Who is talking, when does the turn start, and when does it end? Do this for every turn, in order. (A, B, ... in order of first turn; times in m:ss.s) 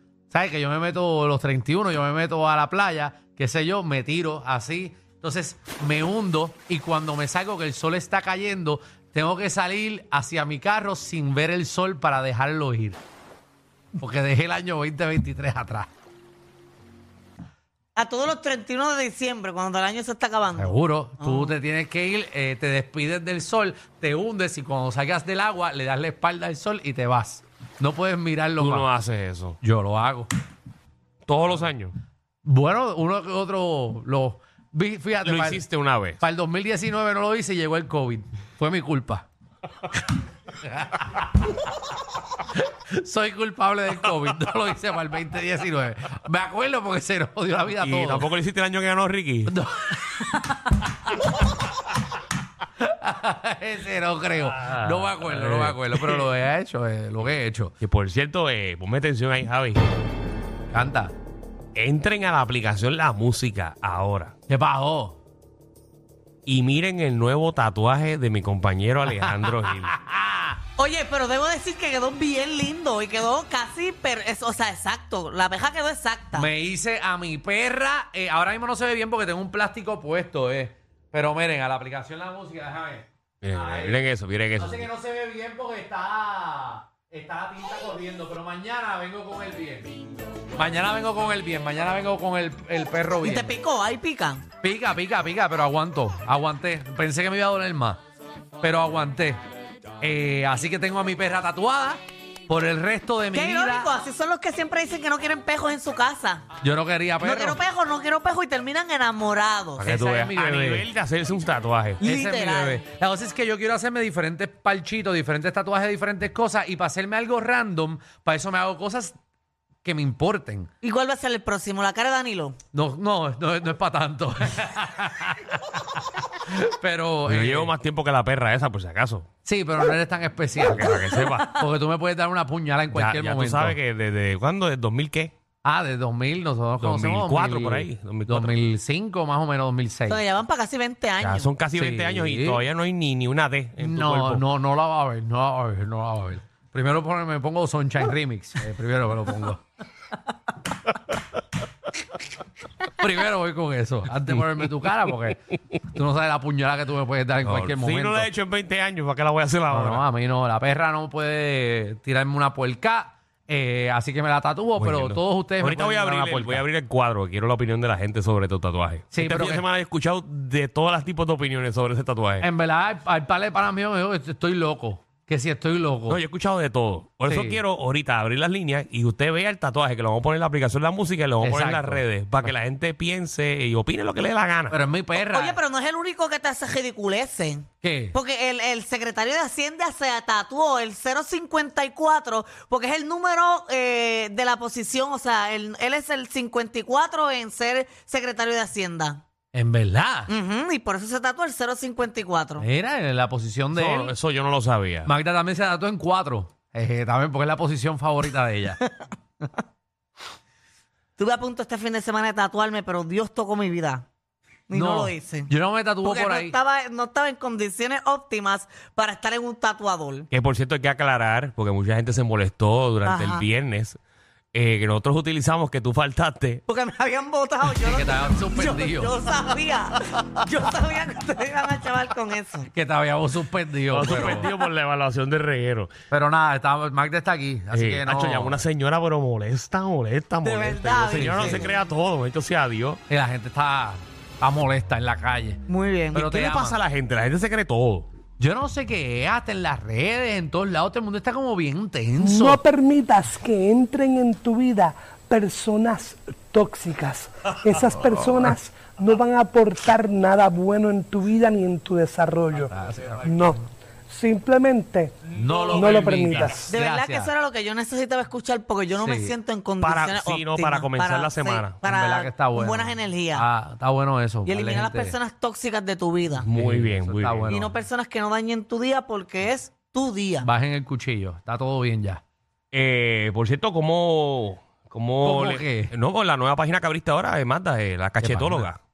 0:00.3-0:13.0 A
0:14.0-0:15.9 A
0:18.0-0:21.6 B
0:20.6-0:28.9 A
0:28.6-0:29.6 C
0:29.6-0:30.3 A
0:31.3-0:31.9 C
0:32.4-0:35.6 A
0:35.2-0:36.2 C
0:36.2-0:39.3 A
0:40.6-0:41.3 A
0:42.6-0:48.3 A
0:47.8-0:49.6 C
0:49.5-0:50.8 A
0:52.8-0:57.7 A
0:54.4-0:56.3 C
0:57.8-0:59.9 C
1:00.7-1:01.1 A
1:01.8-1:04.3 C
1:04.5-1:05.2 A
1:06.5-1:10.0 C
1:09.0-1:10.6 A
1:10.8-1:16.5 B
1:16.3-1:30.0 A
1:23.4-1:24.9 C
1:30.6-1:33.6 A
1:33.2-1:34.4 B
1:34.6-1:38.0 A
1:38.6-1:39.4 A
1:40.0-1:43.9 A
1:43.3-1:46.4 B
1:46.6-1:47.6 A
1:47.2-1:49.9 B
1:49.8-1:52.0 C
1:49.8-1:50.9 A
1:52.0-1:59.2 A
1:52.0-1:52.8 B
1:59.8-2:00.7 A
2:00.8-2:02.6 B
2:02.7-2:07.7 A
2:07.3-2:09.3 C
2:09.4-2:13.8 A
2:10.7-2:11.6 C
2:12.9-2:15.3 C
2:15.6-2:20.2 A
2:16.8-2:18.5 C
2:20.1-2:21.5 B
2:21.2-2:24.4 C
2:21.8-2:22.6 A
2:23.8-2:29.6 A
2:32.9-2:35.4 A
2:35.9-2:38.3 A
2:37.4-2:40.0 C
2:39.7-2:46.6 A
2:44.8-2:52.5 C
2:49.1-2:49.7 A
2:52.4-2:56.2 A
2:56.1-3:04.8 C
2:57.3-2:57.6 A
3:01.4-3:02.1 A
3:04.7-3:05.6 A
3:05.3-3:19.2 B
3:07.8-3:08.2 A
3:19.5-3:20.3 A
3:20.3-3:22.6 B
3:22.6-3:24.2 A
3:23.8-3:25.1 C
3:25.0-3:28.8 A
3:31.2-3:34.1 B
3:34.7-3:35.5 B
3:34.7-3:36.6 A
3:36.0-3:40.3 B
3:40.3-3:44.0 C
3:43.0-3:43.4 B
3:44.5-3:46.6 C
3:46.7-3:52.7 B
3:47.8-3:49.1 A
3:52.7-3:54.5 A
3:53.9-3:55.9 C
3:56.1-3:58.6 A
3:57.7-4:03.0 C
4:00.4-4:01.8 B
4:01.1-4:01.7 A
4:03.1-4:05.6 A
4:05.7-4:06.2 B
4:06.1-4:06.8 A
4:06.2-4:08.1 C
4:08.4-4:12.6 A
4:12.2-4:26.7 D
4:22.6-4:23.3 A
4:25.3-4:27.3 A
4:25.4-4:26.6 C
4:26.7-4:33.5 B
4:29.0-4:29.4 A
4:29.8-4:31.8 C
4:31.8-4:35.2 A
4:34.5-4:36.5 B
4:36.4-4:37.6 C
4:36.5-4:37.7 A
4:37.5-4:40.5 B
4:40.4-4:42.2 A
4:42.7-4:48.8 C
4:45.2-4:45.9 A
4:48.2-4:48.7 A